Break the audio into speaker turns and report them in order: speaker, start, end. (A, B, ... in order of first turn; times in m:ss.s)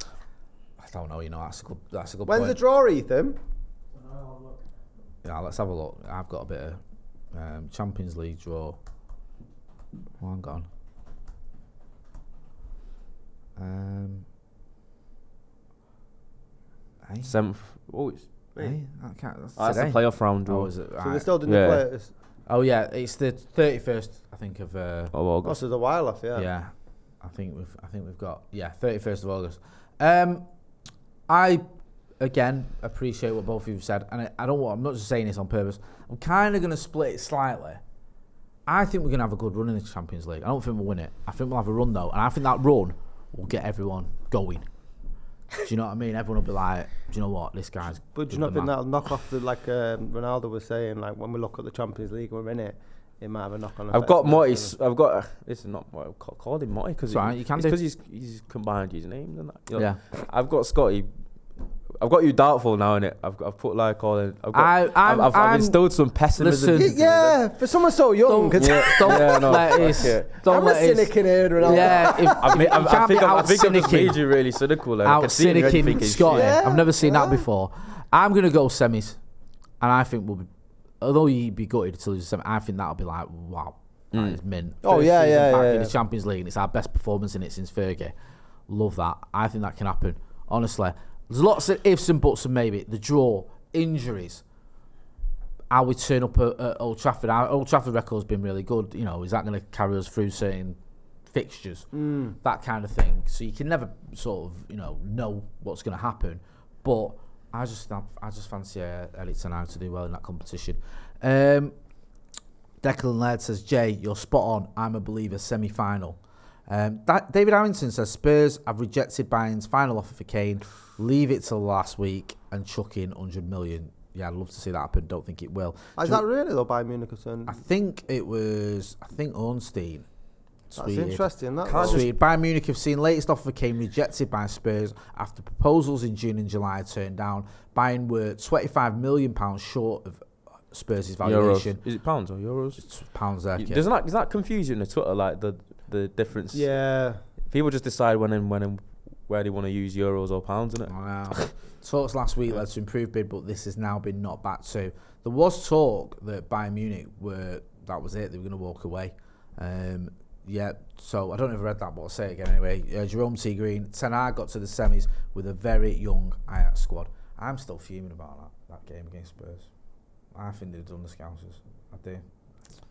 0:00.8-0:02.6 A
0:02.3-0:03.4 B
0:05.2-0:06.8 A
0:07.3-0:08.8 A
0:10.2-0:10.7 A
0:13.6-0:14.3 A
0:17.0-0:17.3 A
0:17.2-0:18.4 C
0:18.6-0:21.3 A
0:19.6-0:20.7 C
0:21.0-0:22.1 B
0:21.4-0:21.8 C
0:22.5-0:25.1 A
0:25.1-0:25.6 C
0:25.4-0:26.5 B
0:26.3-0:30.5 A
0:31.3-0:31.7 A
0:32.2-0:37.8 A
0:38.7-0:44.7 A
0:45.6-0:48.7 A
0:48.1-0:54.8 B
0:53.9-1:01.1 C
0:57.1-0:57.8 A
0:59.7-1:00.0 A
1:02.0-1:07.4 C
1:04.5-1:07.2 A
1:06.8-1:09.5 B
1:08.2-1:14.2 A
1:08.6-1:10.3 C
1:10.3-1:12.6 B
1:12.3-1:16.6 C
1:15.0-1:19.2 A
1:15.7-1:17.5 B
1:19.8-1:20.5 A
1:21.0-1:28.2 A
1:24.1-1:24.4 C
1:24.8-1:26.0 B
1:28.7-1:34.4 A
1:35.7-1:51.7 A
1:41.9-1:42.4 B
1:52.8-2:06.2 A
2:06.0-2:07.6 B
2:07.5-2:10.1 A
2:10.7-2:21.8 A
2:10.8-2:12.1 B
2:11.6-2:12.1 C
2:21.2-2:22.9 C
2:22.8-2:23.8 A
2:23.6-2:31.5 C
2:26.5-2:27.2 B
2:30.9-2:49.7 A
2:50.3-2:52.2 A